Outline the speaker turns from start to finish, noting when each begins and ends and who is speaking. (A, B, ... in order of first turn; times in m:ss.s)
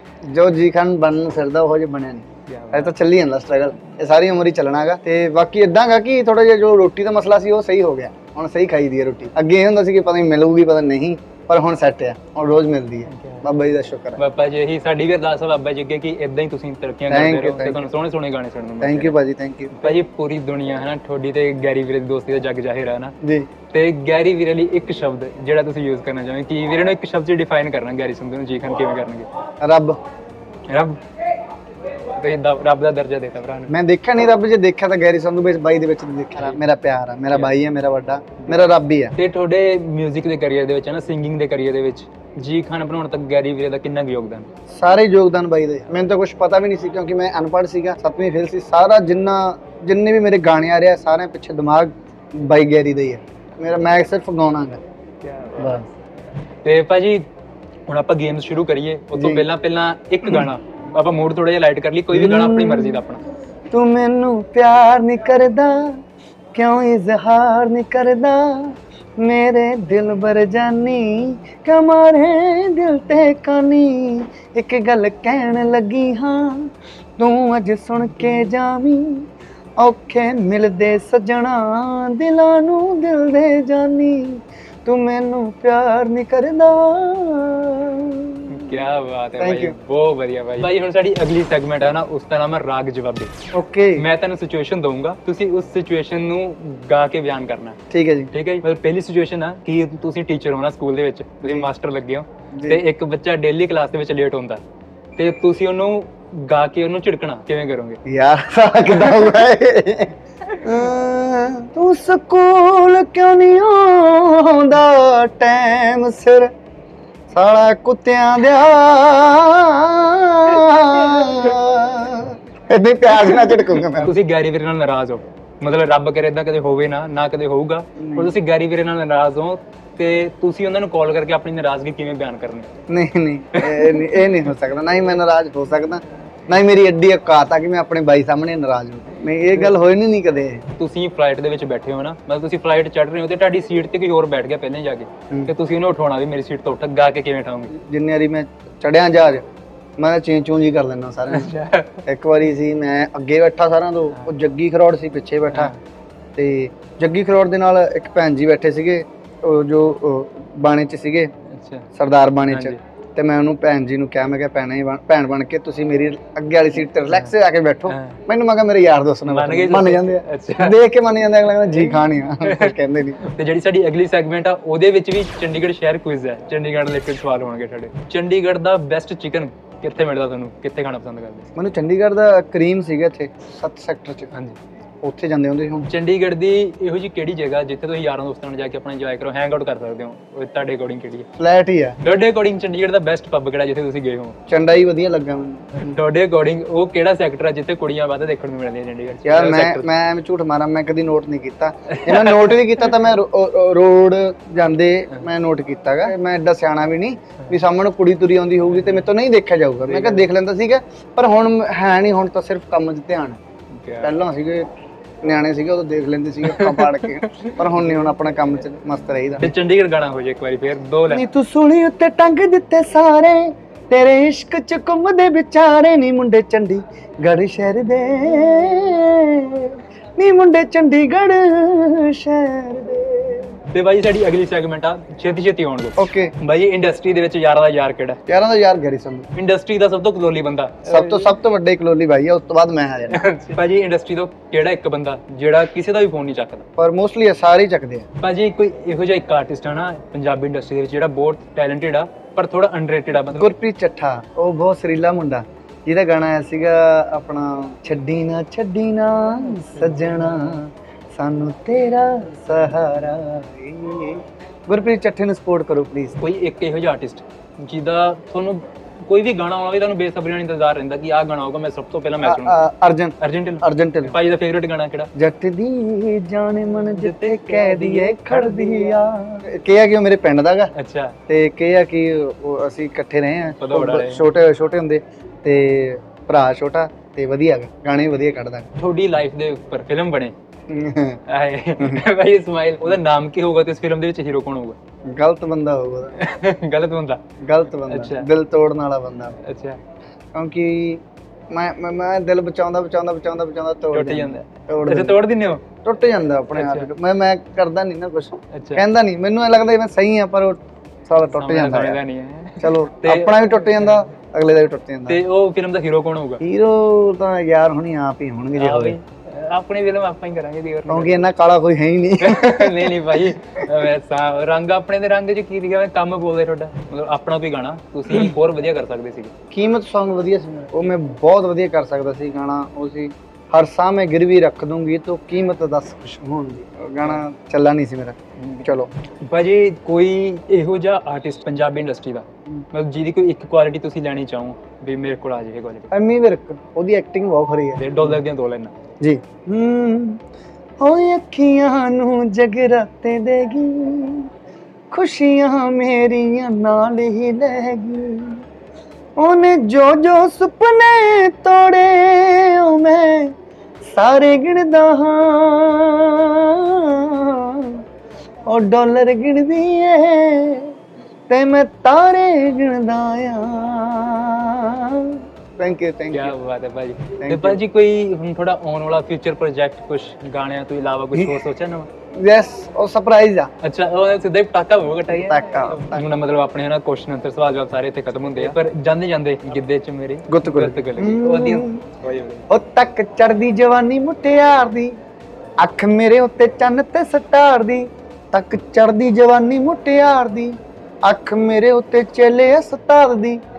0:00.3-0:14.2 A
0:02.5-0:02.9 B
0:13.1-0:13.5 B
0:14.2-0:19.2 B
0:17.1-0:17.9 A
0:18.8-0:20.0 A
0:19.7-0:23.1 B
0:23.2-0:23.5 A
0:23.7-0:29.3 B
0:29.6-0:30.0 A
0:30.7-0:31.0 B
0:32.1-0:33.7 B
0:33.7-0:39.1 A
0:38.4-0:44.5 B
0:44.7-0:54.8 A
0:55.2-0:55.8 B
0:55.6-0:55.8 A
0:56.6-0:57.2 B
0:57.9-1:03.2 B
0:59.1-0:59.5 A
1:02.1-1:03.0 A
1:03.7-1:06.0 A
1:06.5-1:19.2 A
1:19.8-1:28.8 A
1:28.5-1:33.3 B
1:29.4-1:29.8 A
1:33.5-1:34.0 A
1:34.0-1:37.8 B
1:37.9-1:38.3 A
1:38.3-1:44.6 B
1:41.4-1:41.7 A
1:42.5-1:42.8 A
1:45.2-1:48.0 B
1:48.0-1:56.5 A
1:57.3-2:04.1 A
2:03.9-2:12.7 B
2:08.0-2:08.3 A
2:12.9-2:20.6 A
2:13.6-2:14.3 B
2:20.8-2:27.7 B
2:27.8-2:29.4 A
2:30.0-2:35.7 A
2:31.3-2:32.0 B
2:36.4-2:41.3 A
2:41.5-2:41.9 B
2:42.0-2:53.2 A
2:42.5-2:42.8 B
2:47.9-2:48.2 B
2:49.3-2:50.8 B
2:52.4-3:01.5 B
3:01.6-3:04.3 A
3:05.0-3:05.9 A
3:05.9-3:11.3 B
3:11.4-3:12.0 A
3:12.0-3:14.4 B
3:14.5-3:16.0 A
3:15.8-3:19.9 B
3:19.2-3:33.4 A
3:21.9-3:22.6 B
3:29.9-3:30.2 B
3:33.7-3:34.2 B
3:34.0-3:34.7 A
3:35.2-3:39.5 A
3:36.4-3:37.2 B
3:39.4-3:41.3 B
3:41.1-3:53.6 A
3:53.7-3:58.2 B
3:56.0-3:56.3 A
3:58.3-3:59.3 A
3:59.3-4:01.4 B
4:00.8-4:03.3 A
4:03.1-4:06.6 B
4:06.8-4:08.0 A
4:08.2-4:13.5 B
4:13.3-4:26.2 A
4:26.2-4:32.6 B
4:32.2-4:34.2 A
4:33.2-4:35.1 B
4:35.2-4:40.7 A
4:37.0-4:39.0 B
4:40.7-4:41.2 B
4:41.3-4:48.7 A
4:43.6-4:44.3 B
4:48.8-4:50.3 B
4:50.7-4:51.2 A
4:51.3-4:54.8 B
4:55.1-4:56.2 A
4:56.2-4:57.2 B
4:57.4-4:59.4 A
4:57.8-4:58.3 B
4:59.4-4:59.8 B
5:00.3-5:05.2 A
5:03.9-5:05.6 B
5:05.8-5:12.0 A
5:06.5-5:06.9 B
5:08.5-5:08.8 B
5:11.3-5:14.0 B
5:12.6-5:15.2 A
5:15.1-5:16.4 B
5:16.4-5:19.0 A
5:18.6-5:21.3 B
5:20.9-5:23.6 A
5:22.2-5:29.3 B
5:29.5-5:38.9 A
5:38.4-5:45.9 B
5:45.9-5:48.1 A
5:47.8-5:48.7 B
5:49.0-5:50.2 A
5:50.8-5:54.3 A
5:54.9-5:58.4 A
5:59.2-6:03.3 A
6:03.9-6:07.8 A
6:08.5-6:10.8 A
6:11.3-6:16.3 A
6:16.1-6:21.9 B
6:17.2-6:17.6 A
6:21.1-6:21.4 A
6:22.1-6:23.5 A
6:23.6-6:32.4 B
6:25.1-6:26.1 A
6:30.3-6:31.8 A
6:32.5-6:34.9 A
6:35.6-6:43.4 A